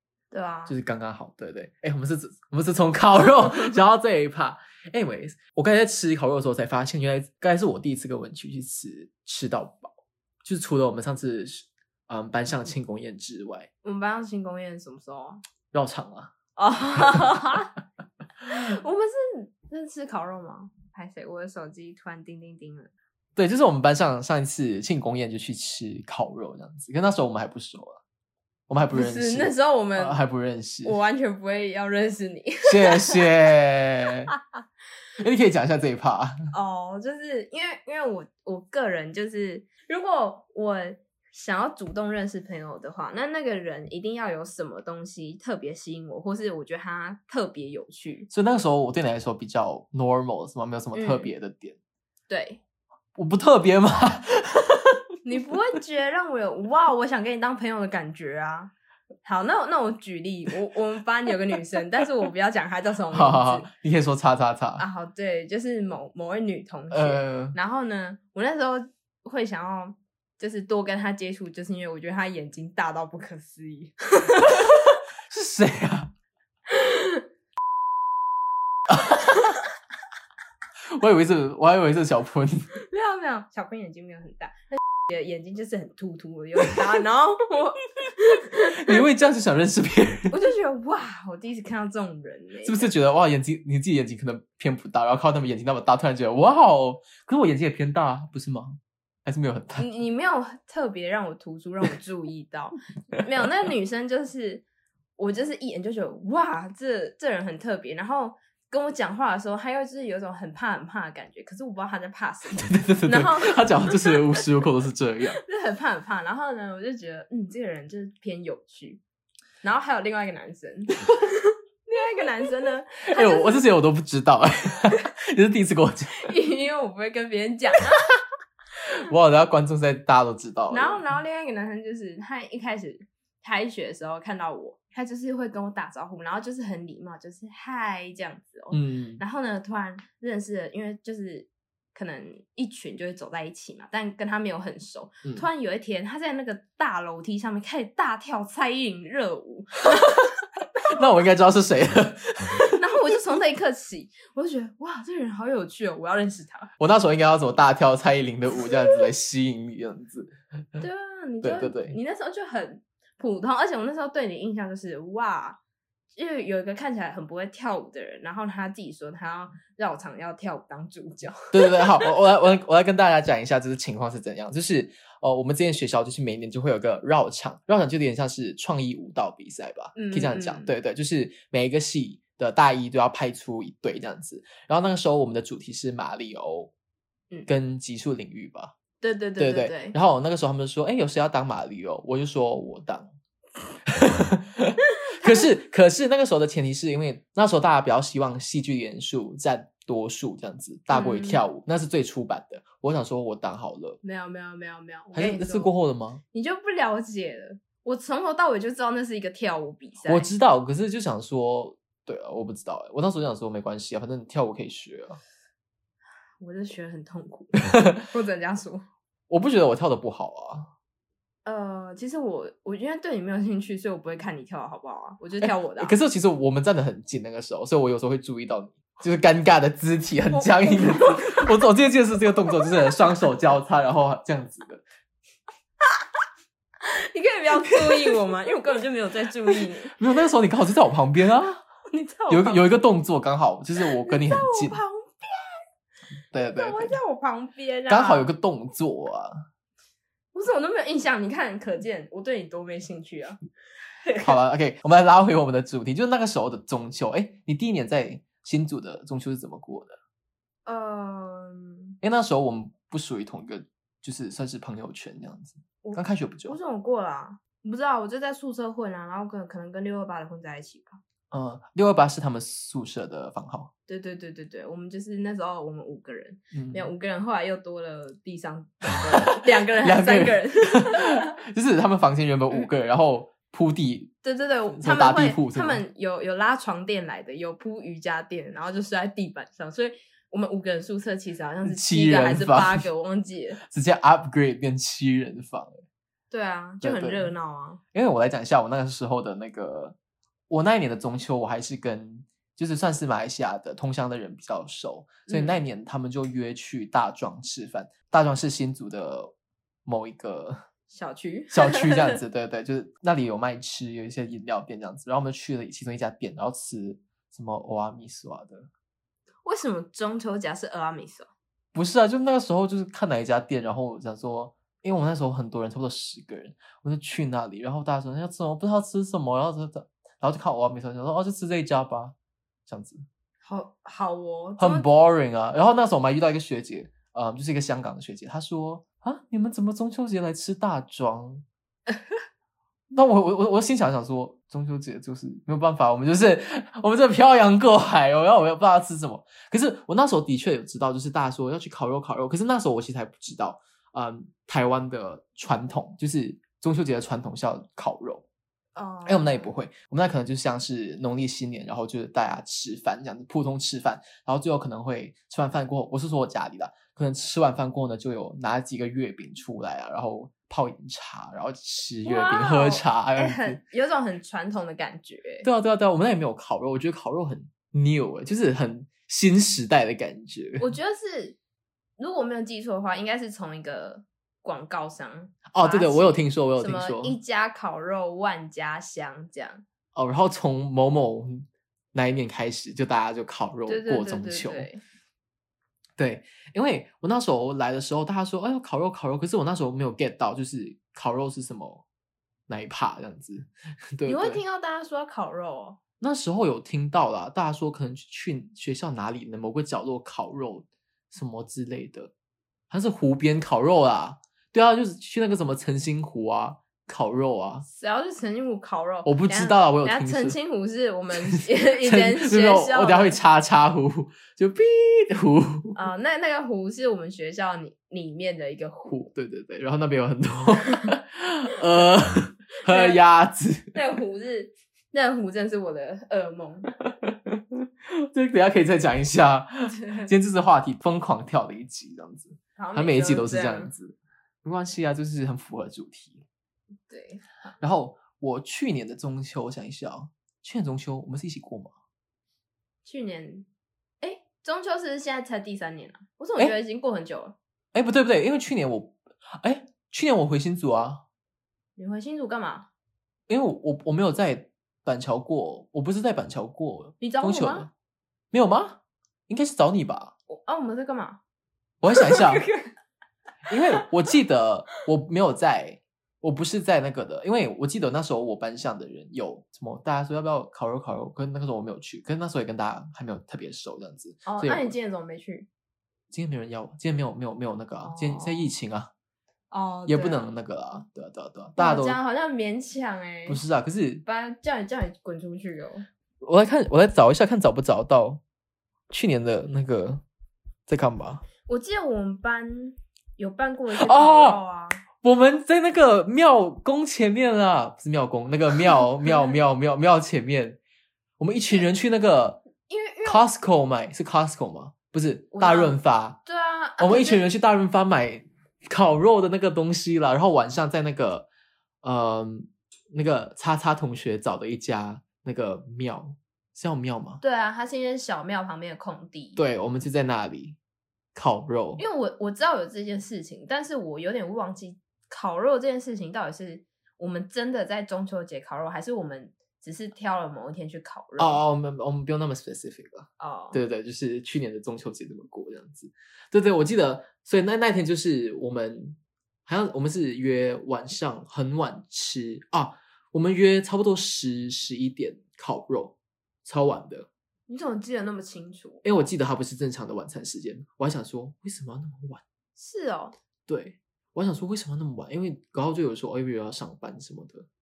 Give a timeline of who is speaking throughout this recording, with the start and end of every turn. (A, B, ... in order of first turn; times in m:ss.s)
0:00.3-0:00.8 A
0:00.7-0:13.7 B
0:13.8-0:15.4 A
0:15.7-0:16.3 B
0:16.6-0:17.7 A
0:18.4-0:22.9 A
0:23.4-0:28.0 B
0:28.7-0:31.0 B
0:28.9-0:30.2 A
0:30.8-0:33.3 A
0:32.7-0:34.3 B
0:35.2-0:36.4 B
0:36.5-0:48.3 A
0:48.3-0:51.8 B
0:50.9-0:51.3 A
0:52.3-0:52.6 A
0:53.2-0:55.0 B
0:55.2-0:58.7 A
0:59.2-1:03.7 A
1:03.1-1:04.8 B
1:04.8-1:14.8 A
1:06.9-1:07.6 B
1:15.3-1:16.1 B
1:16.7-1:17.2 A
1:18.9-1:19.3 B
1:20.9-1:22.7 B
1:22.8-1:29.0 A
1:28.7-1:30.4 B
1:30.3-1:32.9 A
1:32.6-1:39.9 B
1:39.8-1:44.6 A
1:45.2-1:54.2 A
1:52.6-1:55.4 B
1:55.4-1:59.0 A
1:59.6-2:03.7 A
2:03.1-2:06.3 B
2:06.2-2:08.0 A
2:09.0-2:11.1 B
2:10.7-2:30.3 A
2:18.7-2:19.2 B
2:30.9-2:32.8 B
2:32.7-2:36.7 A
2:36.8-2:40.8 B
2:38.6-2:39.0 A
2:40.8-2:45.6 A
2:41.4-2:42.0 B
2:46.2-2:52.1 A
2:51.5-3:06.7 B
3:00.0-3:00.7 A
3:07.5-3:08.7 B
3:09.0-3:10.0 A
3:09.4-3:13.1 B
3:13.9-3:24.0 B
3:20.9-3:21.4 A
3:24.0-3:25.7 A
3:25.1-3:26.2 B
3:26.3-3:30.3 A
3:30.1-3:35.2 B
3:36.4-3:38.8 A
3:39.3-3:40.7 B
3:41.4-3:46.0 A
3:45.4-3:54.8 B
3:50.3-3:51.5 A
3:56.8-4:00.0 A
4:00.0-4:01.6 B
4:01.9-4:02.6 A
4:02.3-4:04.8 B
4:03.9-4:05.6 A
4:06.3-4:07.0 B
4:06.5-4:08.3 A
4:07.9-4:09.4 B
4:10.3-4:13.4 A
4:14.0-4:14.3 A
4:14.2-4:20.0 B
4:20.7-4:21.9 A
4:22.0-4:26.6 B
4:25.8-4:31.0 A
4:31.3-4:33.7 B
4:33.9-4:41.3 A
4:36.5-4:36.9 B
4:39.1-4:44.1 B
4:44.2-4:53.6 A
4:44.8-4:45.8 B
4:51.6-4:52.9 B
4:53.6-4:55.8 B
4:56.3-4:57.8 A
4:56.8-4:57.3 B
4:57.9-5:00.0 B
5:00.5-5:09.3 B
5:05.3-5:05.6 A
5:09.9-5:10.6 B
5:10.9-5:12.2 A
5:11.5-5:18.7 B
5:19.4-5:21.3 A
5:21.7-5:32.2 B
5:32.7-5:33.0 B
5:33.4-5:34.9 A
5:34.6-5:41.4 B
5:42.9-5:58.2 B
5:58.8-5:59.5 A
5:59.1-6:13.6 B
6:12.0-6:15.5 A
6:15.4-6:20.7 B
6:20.6-6:21.4 A
6:22.0-6:29.6 A
6:25.5-6:27.2 B
6:30.0-6:34.7 B
6:33.7-6:34.8 A
6:36.0-6:41.8 B
6:42.5-6:44.4 B
6:44.1-6:45.8 A
6:46.0-6:52.1 B
6:52.7-6:57.7 B
6:57.6-7:03.2 A
6:59.0-7:00.4 B
7:01.3-7:05.8 B
7:05.8-7:09.0 A
7:08.9-7:13.8 B
7:12.7-7:13.0 A
7:13.7-7:16.7 A
7:16.8-7:26.2 B
7:19.7-7:20.1 A
7:22.6-7:23.7 A
7:26.9-7:27.3 A
7:27.6-7:31.7 B
7:32.8-7:33.5 A
7:34.0-7:37.4 A
7:37.7-7:41.0 B
7:41.8-7:42.7 A
7:43.3-7:47.7 B
7:47.0-7:47.7 A
7:48.3-7:50.2 B
7:50.3-7:51.2 A
7:51.8-7:52.5 B
7:51.9-7:52.7 A
7:53.5-8:04.7 B
7:53.5-7:53.9 A
8:04.2-8:05.5 A
8:06.1-8:08.9 B
8:07.8-8:08.5 A
8:09.5-8:10.3 A
8:09.9-8:12.0 B
8:11.6-8:13.4 A
8:13.3-8:14.0 B
8:14.0-8:15.9 A
8:16.2-8:18.2 B
8:18.9-8:20.0 B
8:20.7-8:21.3 B
8:21.5-8:24.8 A
8:23.7-8:24.4 B
8:25.0-8:30.6 B
8:31.2-8:32.4 B
8:32.7-8:33.2 A
8:33.0-8:36.2 B
8:35.3-8:37.2 A
8:36.8-8:41.3 B
8:41.8-8:47.2 B
8:47.2-8:49.4 A
8:49.4-8:50.6 B
8:51.2-8:51.8 B
8:51.8-9:01.4 A
9:01.2-9:17.1 B
9:03.2-9:03.6 A
9:17.5-9:18.8 A
9:18.8-9:22.2 B
9:22.6-9:23.2 A
9:23.5-9:27.5 B